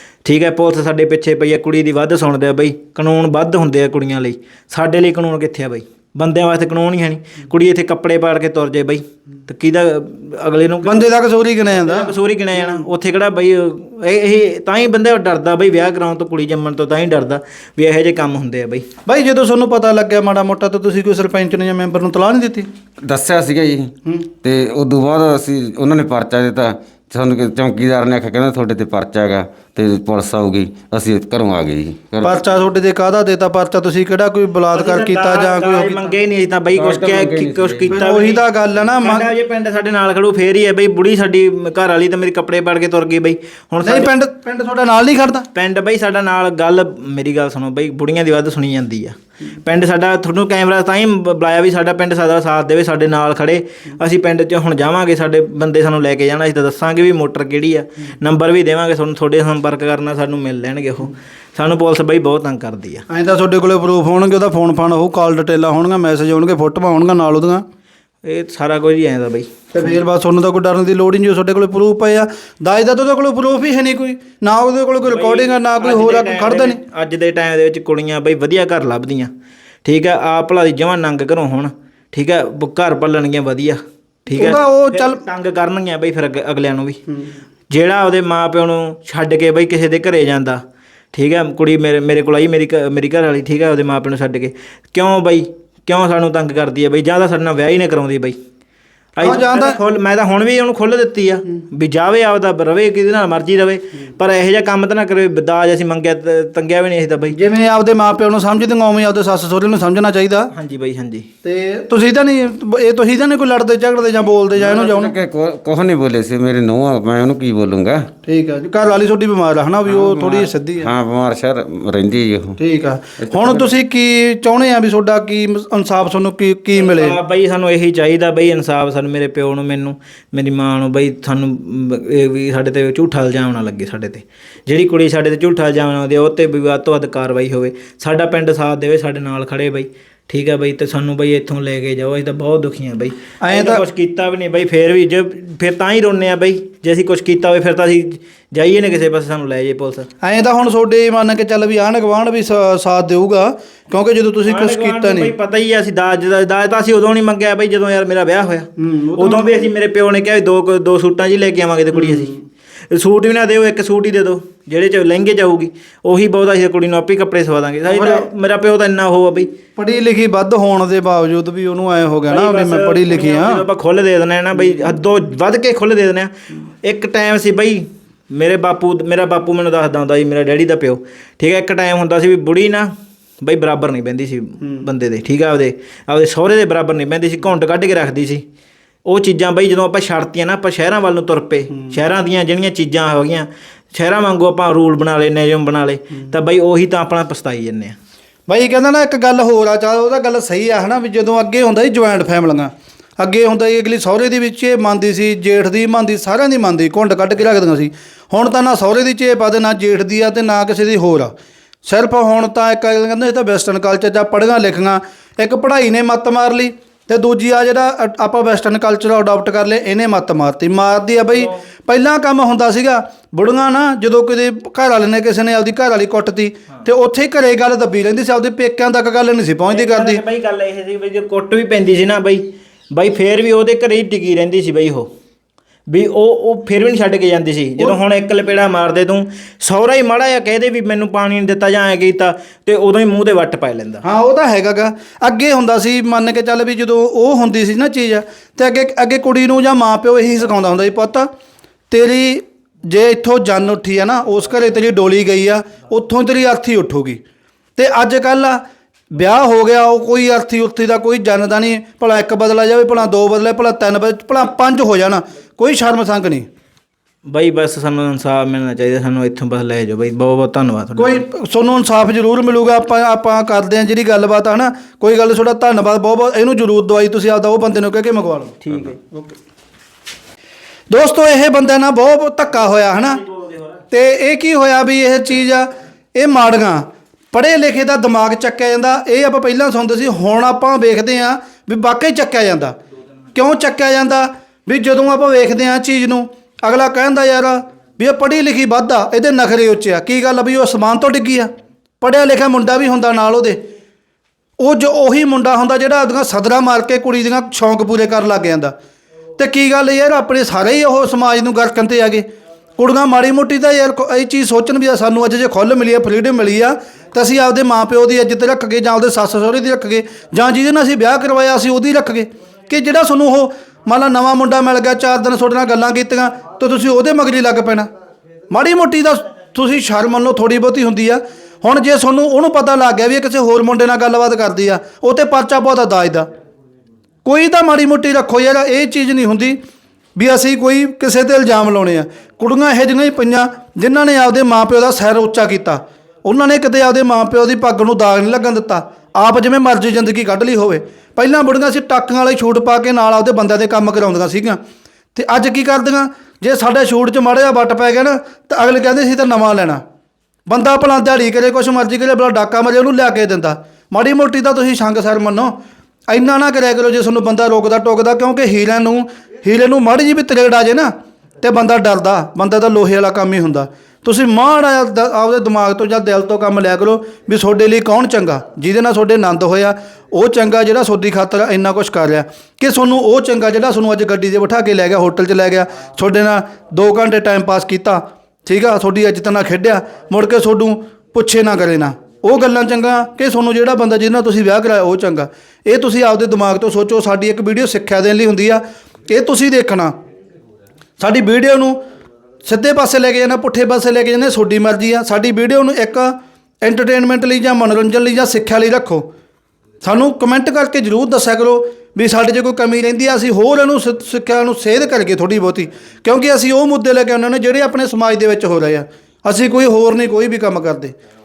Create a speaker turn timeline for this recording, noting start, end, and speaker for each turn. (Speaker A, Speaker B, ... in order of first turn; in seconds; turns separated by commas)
Speaker A: 0.2-11.1, Speaker B: 10.8-12.8, Speaker A: 11.7-18.9, Speaker B: 19.1-22.7, Speaker C: 23.1-23.9, Speaker C: 24.4-32.4, Speaker B: 32.2-36.1, Speaker A: 34.7-38.5, Speaker C: 36.7-38.0, Speaker B: 37.9-39.3, Speaker A: 39.0-44.1, Speaker B: 43.8-45.5, Speaker A: 45.5-63.0, Speaker B: 63.1-67.7, Speaker A: 68.2-70.0, Speaker B: 69.7-76.8, Speaker A: 75.0-79.3, Speaker A: 79.8-87.0, Speaker B: 84.3-85.2, Speaker A: 87.7-90.6, Speaker A: 91.1-98.3, Speaker A: 99.2-107.4, Speaker B: 99.2-99.8, Speaker B: 107.3-110.5, Speaker A: 110.5-111.3, Speaker B: 111.4-115.1, Speaker C: 114.5-118.1, Speaker B: 118.2-120.9, Speaker C: 119.9-122.6, Speaker B: 122.6-127.2, Speaker C: 123.2-123.6, Speaker A: 126.7-150.1, Speaker B: 143.4-143.8, Speaker B: 150.2-155.3, Speaker A: 154.4-162.4, Speaker B: 158.8-159.7, Speaker B: 161.9-162.4, Speaker A: 162.9-169.5, Speaker B: 167.9-168.3, Speaker B: 169.8-173.7, Speaker A: 172.3-176.3, Speaker A: 176.8-182.9, Speaker A: 183.4-188.4, Speaker B: 184.6-184.9, Speaker A: 189.1-198.0, Speaker B: 191.7-192.0, Speaker B: 198.5-211.3, Speaker B: 211.8-230.2, Speaker A: 221.3-221.6, Speaker A: 229.7-235.1, Speaker A: 235.9-244.0, Speaker B: 244.0-251.3, Speaker B: 251.9-257.2, Speaker B: 257.8-266.5, Speaker A: 267.3-271.2, Speaker B: 271.0-278.6, Speaker A: 278.6-279.0, Speaker B: 280.9-283.2, Speaker A: 282.6-283.8, Speaker B: 283.9-292.8, Speaker B: 293.4-301.5, Speaker B: 302.0-303.6, Speaker B: 304.6-308.7, Speaker B: 309.4-312.3, Speaker B: 312.8-327.9, Speaker B: 328.5-336.3, Speaker B: 337.2-339.6, Speaker B: 340.1-354.6, Speaker B: 355.1-359.8, Speaker B: 360.5-365.5, Speaker B: 366.1-399.9, Speaker B: 401.0-401.8, Speaker B: 402.4-409.1, Speaker B: 409.8-420.9